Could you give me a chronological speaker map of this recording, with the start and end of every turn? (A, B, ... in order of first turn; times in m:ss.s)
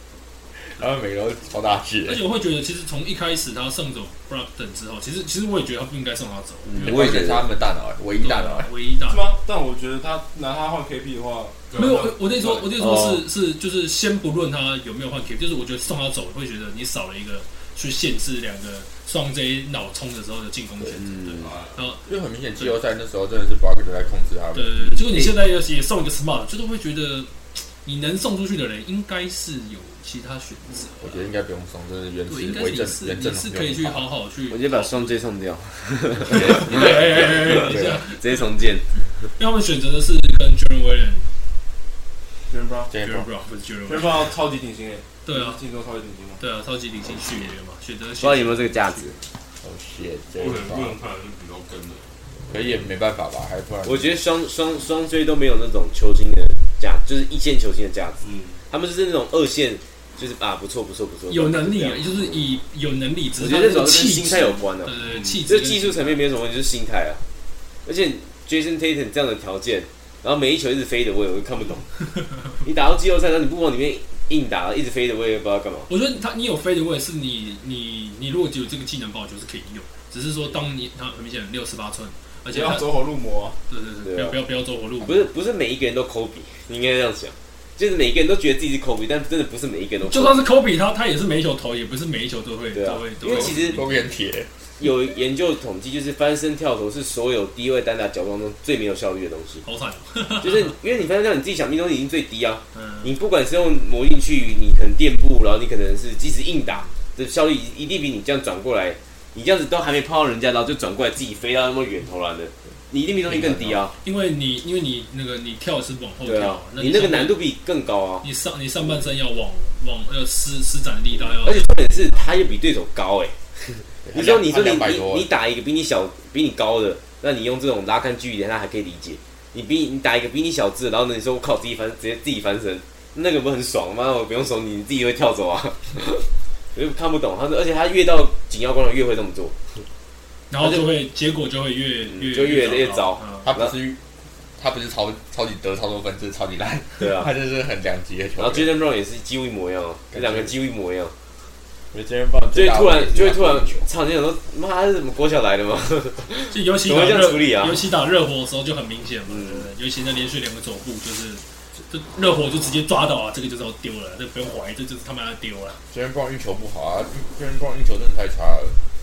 0:00.6-0:02.2 A
0:02.0-0:07.3 B
0:06.7-0:07.4 C
0:06.8-0:08.7 A
0:08.2-0:09.3 B
0:09.1-0:11.6 D
0:11.7-0:12.7 E
0:11.7-0:22.0 B
0:12.8-0:13.2 C
0:21.0-0:21.5 C
0:21.3-0:21.8 E
0:22.0-0:25.0 A
0:24.5-0:31.3 B
0:25.0-0:25.3 C
0:31.0-0:34.0 A
0:32.3-0:35.2 B
0:34.5-0:38.9 C
0:36.3-0:38.0 A
0:36.3-0:38.4 B
0:39.4-0:41.3 B
0:42.5-0:42.9 D
0:42.9-0:43.3 A
0:43.0-0:44.3 B
0:43.9-0:46.4 D
0:45.2-0:45.6 B
0:46.4-0:49.1 B
0:48.2-0:49.2 C
0:49.6-0:51.0 A
0:50.4-0:52.1 E
0:52.5-0:54.2 A
0:53.8-1:02.4 C
0:58.2-0:58.6 E
1:01.3-1:06.2 B
1:03.4-1:04.9 C
1:05.0-1:05.4 E
1:05.4-1:07.2 C
1:07.8-1:11.9 C
1:12.5-1:15.9 C
1:15.9-1:23.0 B
1:22.5-1:23.6 D
1:23.7-1:25.3 B
1:24.0-1:24.4 C
1:25.0-1:30.4 C
1:30.0-1:34.1 B
1:32.7-1:33.8 C
1:33.3-1:34.5 A
1:34.8-1:39.6 C
1:39.6-1:40.8 B
1:40.4-1:54.0 C
1:42.7-1:43.1 B
1:53.3-1:53.8 A
1:54.0-1:57.4 B
1:56.2-1:58.2 C
1:58.2-2:02.3 B
2:01.4-2:19.6 C
2:04.0-2:05.3 A
2:20.5-2:23.5 B
2:20.6-2:20.9 C
2:22.1-2:23.7 C
2:23.4-2:24.0 A
2:24.6-2:28.7 A
2:27.0-2:27.3 C
2:28.4-2:31.1 C
2:30.1-2:30.5 A
2:31.9-2:33.8 A
2:32.5-2:37.8 C
2:36.5-2:45.8 B
2:39.3-2:39.7 C
2:45.9-2:48.8 A